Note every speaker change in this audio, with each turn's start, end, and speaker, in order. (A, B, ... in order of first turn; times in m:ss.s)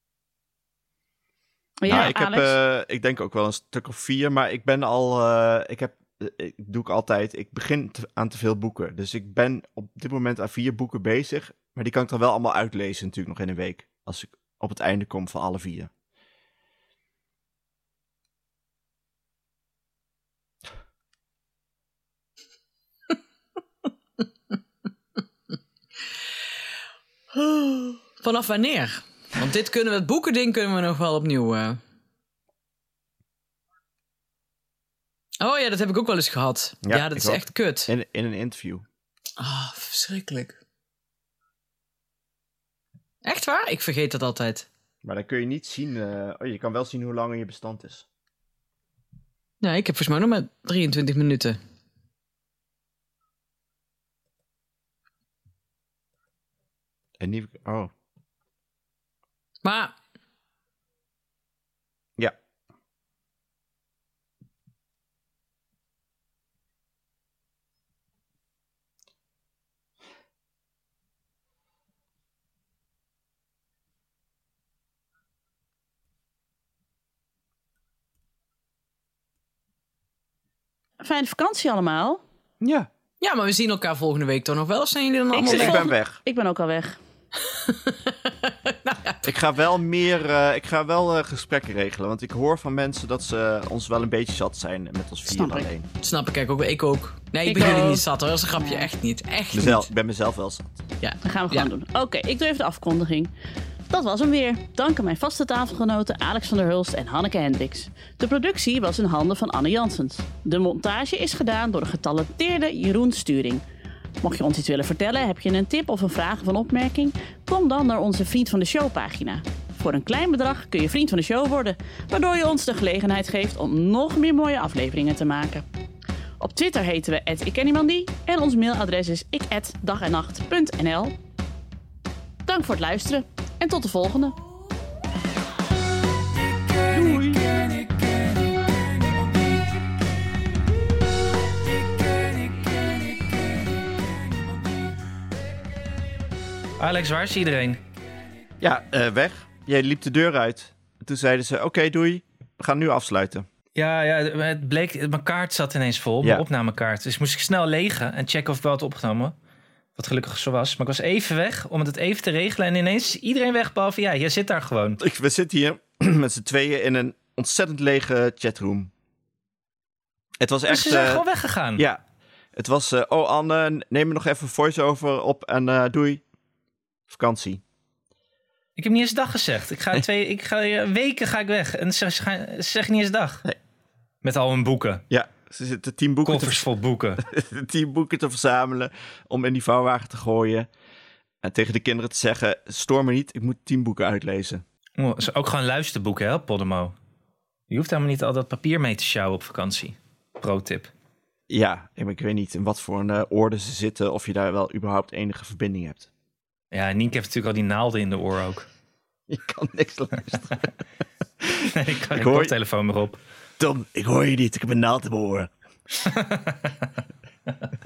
0:01.8-0:02.6 A
0:01.9-0:15.9 B
0:27.3-0:31.8 C
0:35.4-0:37.9 C
0:36.8-0:38.8 B
0:39.4-0:40.6 C
0:43.2-0:44.7 C
0:45.0-0:48.0 B
0:49.6-0:51.6 C
0:57.2-0:57.9 B
0:59.6-0:59.9 C
1:21.0-1:22.2 A
1:22.6-1:22.9 B
1:23.2-1:25.8 C
1:25.3-1:27.0 A
1:25.4-1:26.2 B
1:27.4-1:29.4 C
1:29.2-1:35.9 B
1:35.3-1:35.7 A
1:36.0-1:39.9 C
1:37.4-1:38.9 A
1:39.5-1:40.8 B
1:41.0-1:41.7 C
1:41.2-1:43.3 A
1:43.9-1:53.6 A
1:54.2-2:05.6 A
2:06.4-2:11.1 A
2:12.4-2:14.3 A
2:16.3-2:19.7 D
2:21.6-2:24.8 D
2:26.8-2:27.8 E
2:28.6-2:33.4 B
2:33.7-2:39.3 E
2:40.0-2:45.0 E
2:45.0-2:48.9 B
2:50.4-2:51.2 B
2:50.7-2:51.8 E
2:51.8-2:52.0 B
2:52.5-2:56.2 B
2:57.1-2:57.6 B
2:58.8-3:03.4 E
3:04.2-3:05.0 E
3:05.1-3:06.6 B
3:06.2-3:07.2 E
3:07.2-3:10.7 B
3:11.4-3:14.6 B
3:15.0-3:16.9 E
3:17.7-3:20.9 E
3:21.5-3:26.1 B
3:26.7-3:28.7 E
3:29.3-3:30.6 B
3:31.4-3:32.5 B
3:31.7-3:33.2 E
3:33.6-3:35.5 B
3:36.0-3:36.9 E